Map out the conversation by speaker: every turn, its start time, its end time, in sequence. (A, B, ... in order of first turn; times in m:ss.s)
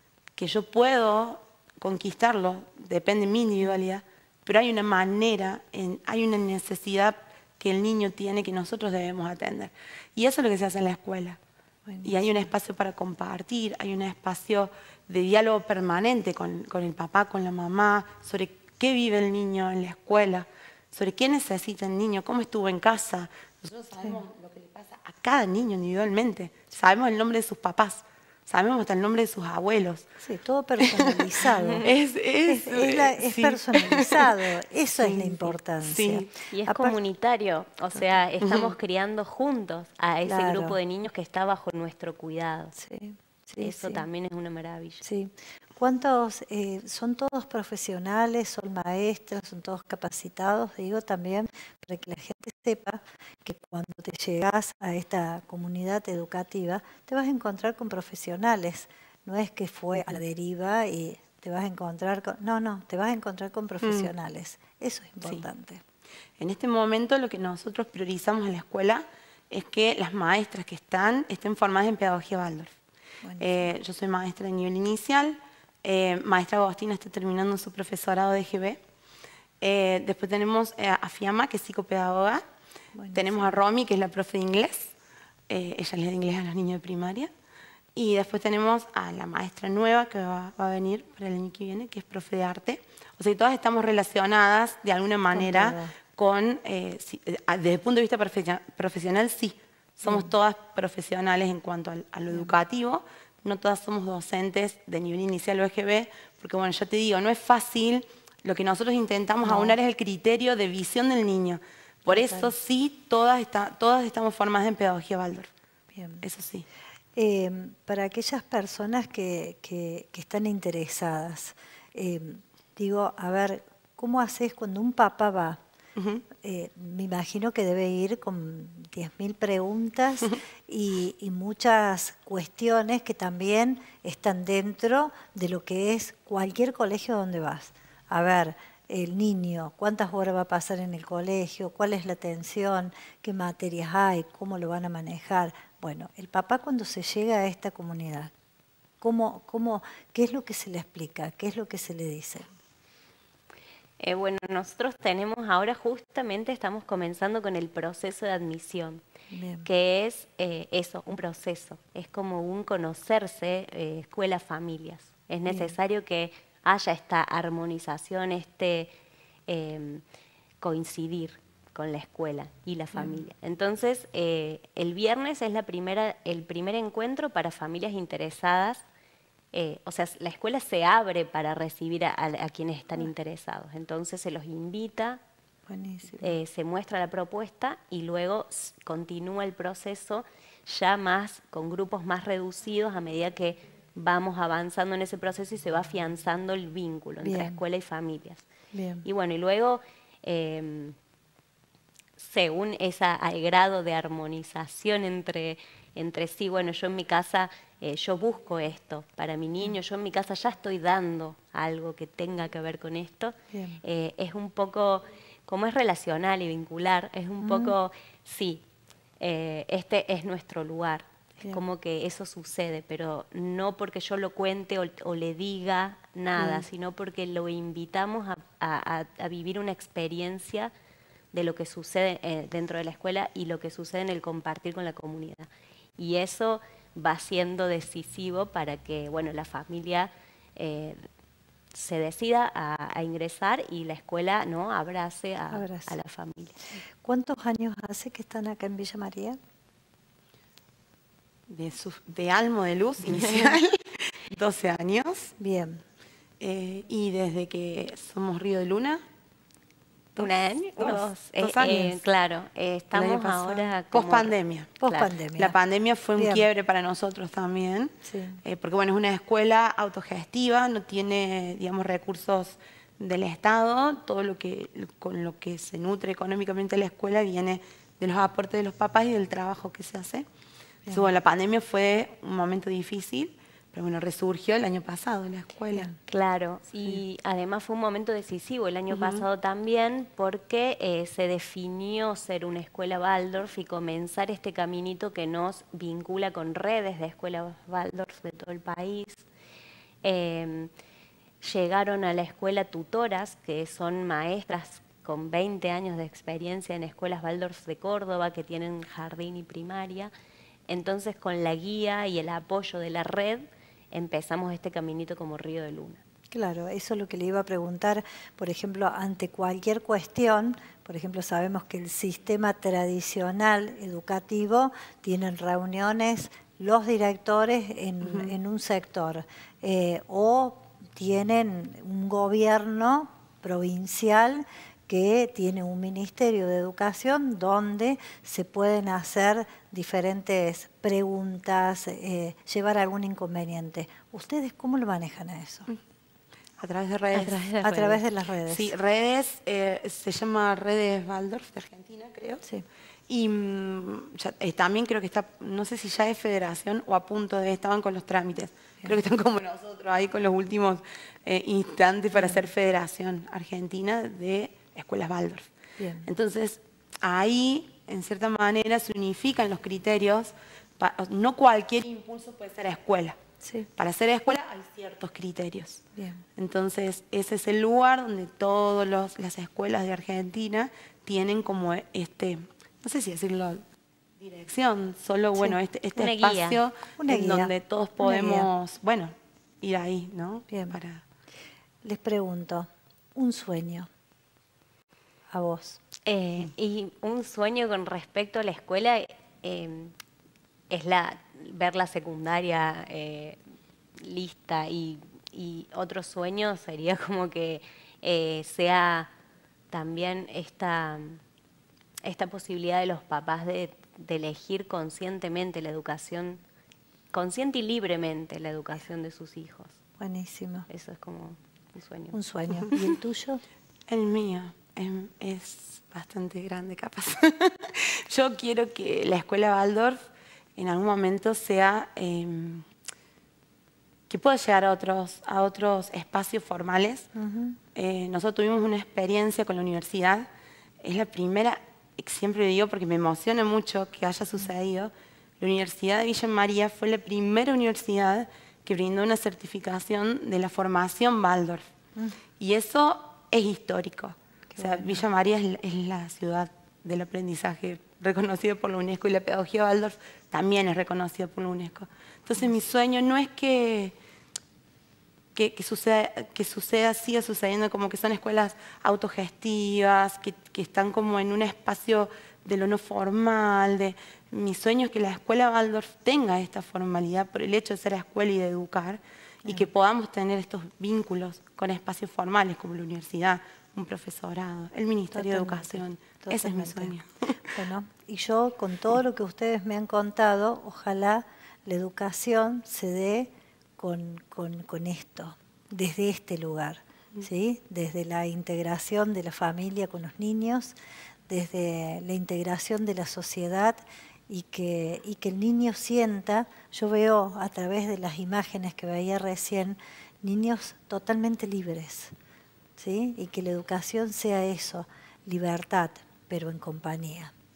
0:00.4-0:11.4 A
0:11.9-0:12.3 B
0:12.0-0:30.1 A
0:30.2-0:31.9 B
0:30.8-0:34.4 A
0:32.5-0:37.0 B
0:35.0-0:36.3 A
0:36.5-0:42.8 C
0:38.4-0:38.7 A
0:40.2-0:40.8 B
0:42.8-0:44.1 B
0:43.6-0:45.0 C
0:45.0-1:05.8 B
1:03.8-1:04.1 A
1:06.4-1:12.7 A
1:13.2-1:13.7 B
1:13.4-1:18.8 A
1:19.6-1:22.4 A
1:23.0-1:23.6 B
1:23.1-1:24.9 A
1:25.5-1:27.3 A
1:28.0-1:55.5 A
1:35.3-1:35.9 B
1:40.0-1:40.3 B
1:42.3-1:42.6 B
1:49.4-1:49.8 B
1:52.1-1:52.5 B
1:55.9-1:56.2 B
1:56.2-1:56.7 A
1:57.2-2:05.6 B
2:06.0-2:06.2 A
2:06.4-2:28.3 B
2:29.0-2:32.5 B
2:34.0-2:39.0 C
2:39.3-2:39.7 B
2:39.6-2:48.9 C
2:45.5-2:45.7 B
2:49.5-2:50.0 C
2:50.6-2:58.8 C
2:52.9-2:53.2 B
2:59.5-3:05.2 C
3:05.7-3:06.3 B
3:06.2-3:18.4 C
3:17.2-3:17.6 B
3:18.7-3:19.0 B
3:19.0-3:21.0 C
3:22.2-3:38.6 C
3:33.5-3:33.8 B
3:37.4-3:37.8 B
3:39.2-3:50.7 C
3:51.3-4:01.1 C
4:01.7-4:06.6 C
4:05.5-4:05.9 B
4:07.0-4:09.4 B
4:11.5-4:15.3 A
4:15.4-4:15.8 B
4:16.4-4:19.0 A
4:20.2-4:21.9 A
4:20.2-4:24.3 C
4:21.6-4:21.9 B
4:22.9-4:24.8 A
4:24.8-4:25.6 B
4:25.4-4:40.3 A
4:26.2-4:26.5 B
4:28.0-4:28.4 B
4:40.9-4:45.9 A
4:46.1-4:59.3 C
4:48.9-4:49.3 A
5:00.0-5:00.7 C
5:01.4-5:10.1 C
5:10.7-5:16.0 C
5:16.3-5:45.7 B
5:28.0-5:28.3 A
5:46.6-5:47.7 A
5:47.1-5:48.0 C
5:47.6-5:48.7 B
5:48.5-5:52.4 A
5:53.1-6:05.5 A
6:02.2-6:02.4 B
6:05.8-6:06.1 B
6:06.0-6:13.2 A
6:13.4-6:13.7 B
6:13.8-6:15.8 A
6:16.0-6:16.2 B
6:16.4-6:23.6 A
6:24.2-6:31.0 A
6:26.0-6:26.6 C
6:27.0-6:28.5 B
6:30.5-6:30.8 B
6:31.8-6:33.9 B
6:35.3-6:35.8 B
6:36.1-6:39.9 C
6:40.7-6:43.4 C
6:44.0-6:49.1 C
6:49.7-6:51.2 C
6:52.0-6:56.4 C
6:57.1-6:59.8 C
7:00.0-7:00.7 B
7:00.7-7:02.2 C
7:02.1-7:03.4 B
7:03.9-7:10.0 A
7:10.6-7:12.7 A
7:14.1-7:17.1 A
7:17.2-7:17.6 B
7:17.7-7:20.3 A
7:20.8-7:31.6 A
7:32.4-7:44.0 A
7:34.5-7:35.0 B
7:45.4-8:07.6 A
8:05.1-8:07.0 B
8:07.5-8:20.8 B
8:21.3-8:32.1 B
8:32.8-8:37.3 B